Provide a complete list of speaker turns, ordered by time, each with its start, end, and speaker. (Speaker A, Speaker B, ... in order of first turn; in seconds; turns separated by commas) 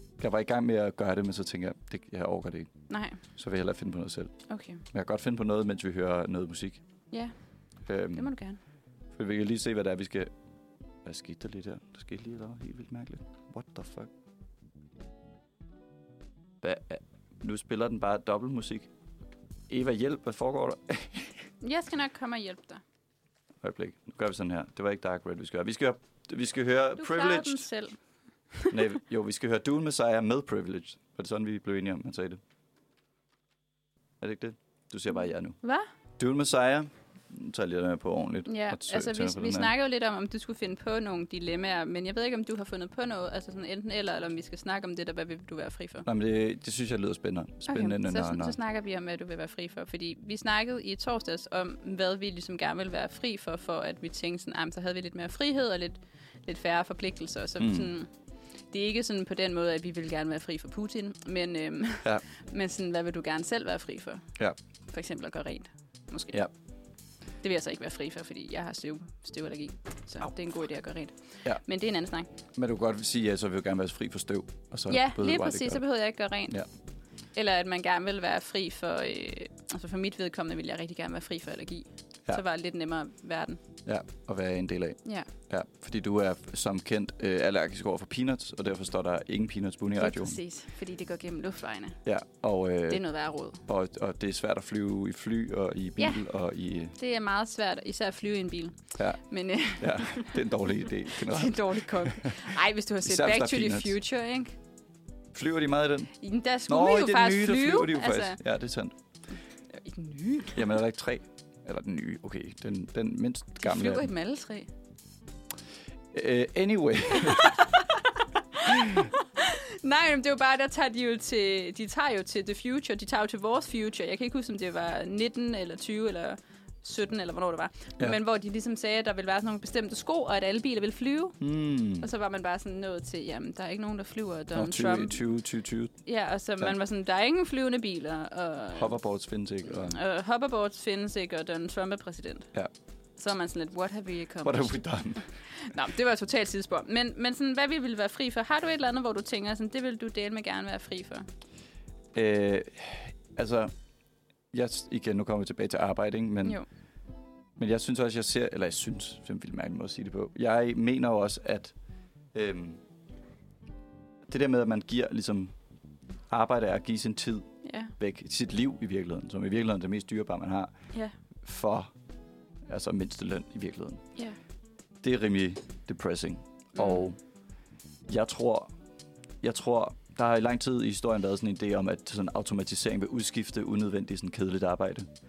Speaker A: 0.2-2.7, Speaker B: 2.9-3.2, Speaker A: 3.2-6.8, Speaker B: 4.5-4.8, Speaker A: 7.8-8.3, Speaker B: 8.1-8.6, Speaker A: 9.1-10.3, Speaker A: 11.0-14.1, Speaker A: 16.6-18.9, Speaker A: 19.7-21.4, Speaker B: 21.6-22.8, Speaker A: 23.6-27.7, Speaker B: 27.0-28.0, Speaker A: 28.7-32.4, Speaker A: 34.2-35.6, Speaker B: 35.6-35.9, Speaker A: 36.2-39.7, Speaker B: 38.5-46.0, Speaker A: 46.0-48.6, Speaker B: 47.7-58.1, Speaker A: 57.6-57.9, Speaker B: 58.7-64.2, Speaker B: 64.9-66.4, Speaker B: 67.4-72.3, Speaker A: 72.5-75.8, Speaker B: 74.9-76.6, Speaker B: 77.3-83.6, Speaker A: 83.8-90.4, Speaker B: 90.0-92.0, Speaker A: 92.0-93.1, Speaker B: 92.9-93.6, Speaker A: 93.6-96.9, Speaker B: 96.0-96.2, Speaker B: 96.9-100.4, Speaker A: 99.0-99.2, Speaker A: 99.7-103.9, Speaker B: 101.1-104.5, Speaker A: 105.3-106.1, Speaker B: 106.2-108.4, Speaker A: 106.7-108.9, Speaker B: 109.7-110.6, Speaker A: 110.5-114.1, Speaker B: 113.6-114.7, Speaker A: 116.1-117.6, Speaker B: 117.2-117.8, Speaker B: 118.5-131.4, Speaker A: 118.6-119.1, Speaker A: 131.4-132.1, Speaker B: 132.0-135.2, Speaker A: 134.5-135.9, Speaker B: 136.0-138.9, Speaker A: 138.7-140.0, Speaker B: 139.7-142.5, Speaker B: 143.2-144.8, Speaker A: 144.4-145.3, Speaker B: 145.4-151.3, Speaker A: 152.1-153.7, Speaker A: 154.5-156.6, Speaker A: 157.6-161.7, Speaker A: 162.3-162.8, Speaker A: 164.3-165.5, Speaker A: 166.3-170.7, Speaker B: 167.6-167.9, Speaker A: 171.4-171.9, Speaker A: 172.6-174.0, Speaker A: 175.0-177.2, Speaker B: 176.8-177.1, Speaker A: 178.1-178.7, Speaker A: 179.4-185.1